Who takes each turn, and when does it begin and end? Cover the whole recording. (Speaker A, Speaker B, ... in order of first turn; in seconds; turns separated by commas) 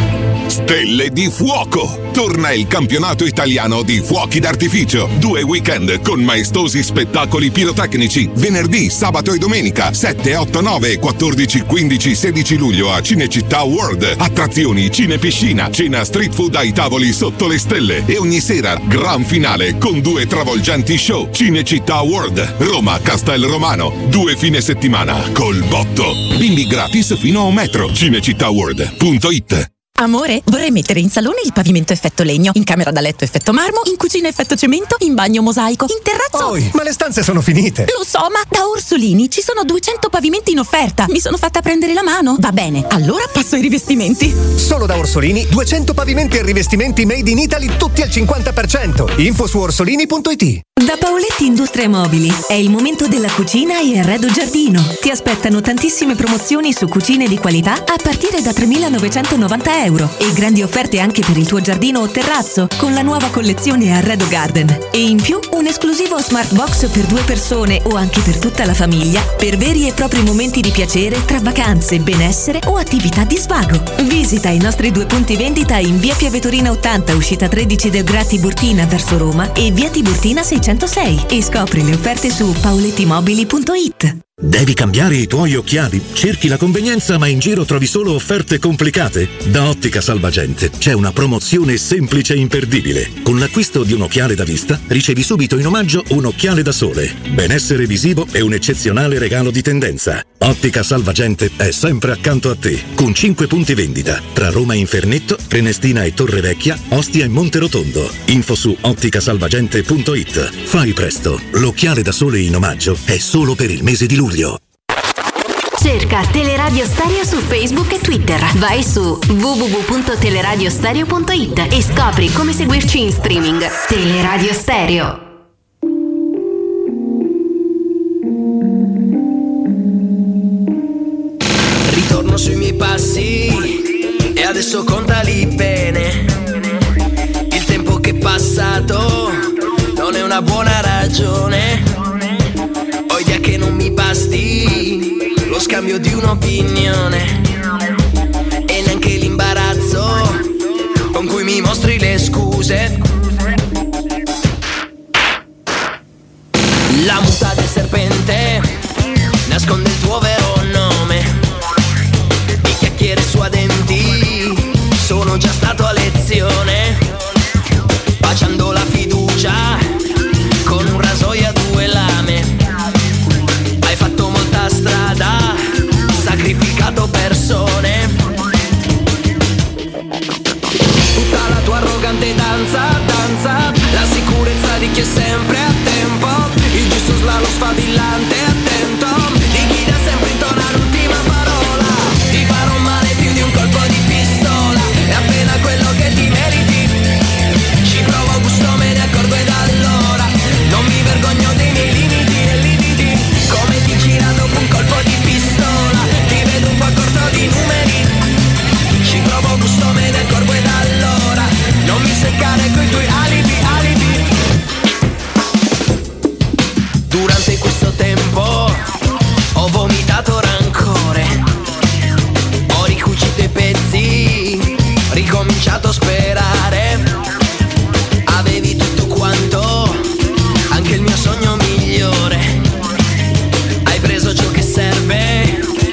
Speaker A: 0.5-29.7, Speaker B: 29.9-36.7, Speaker C: 36.3-37.9, Speaker B: 37.9-44.5, Speaker C: 44.5-50.6, Speaker D: 50.8-84.2, Speaker E: 84.4-114.6, Speaker F: 115.8-122.9, Speaker F: 123.4-125.0, Speaker G: 131.9-133.8, Speaker G: 134.3-136.3, Speaker G: 137.5-139.4, Speaker G: 139.9-141.8, Speaker G: 143.1-147.4, Speaker G: 148.7-150.4, Speaker G: 151.1-153.0, Speaker G: 156.9-158.6, Speaker G: 159.5-161.3, Speaker G: 162.6-167.0, Speaker G: 168.2-169.8, Speaker G: 170.6-172.5, Speaker G: 173.8-175.6, Speaker G: 176.1-178.2, Speaker G: 181.2-197.1, Speaker G: 197.8-208.1, Speaker G: 209.0-214.2, Speaker G: 217.1-218.8, Speaker G: 219.5-221.3, Speaker G: 222.7-227.0, Speaker G: 228.3-230.0, Speaker G: 230.7-232.4, Speaker G: 233.8-235.6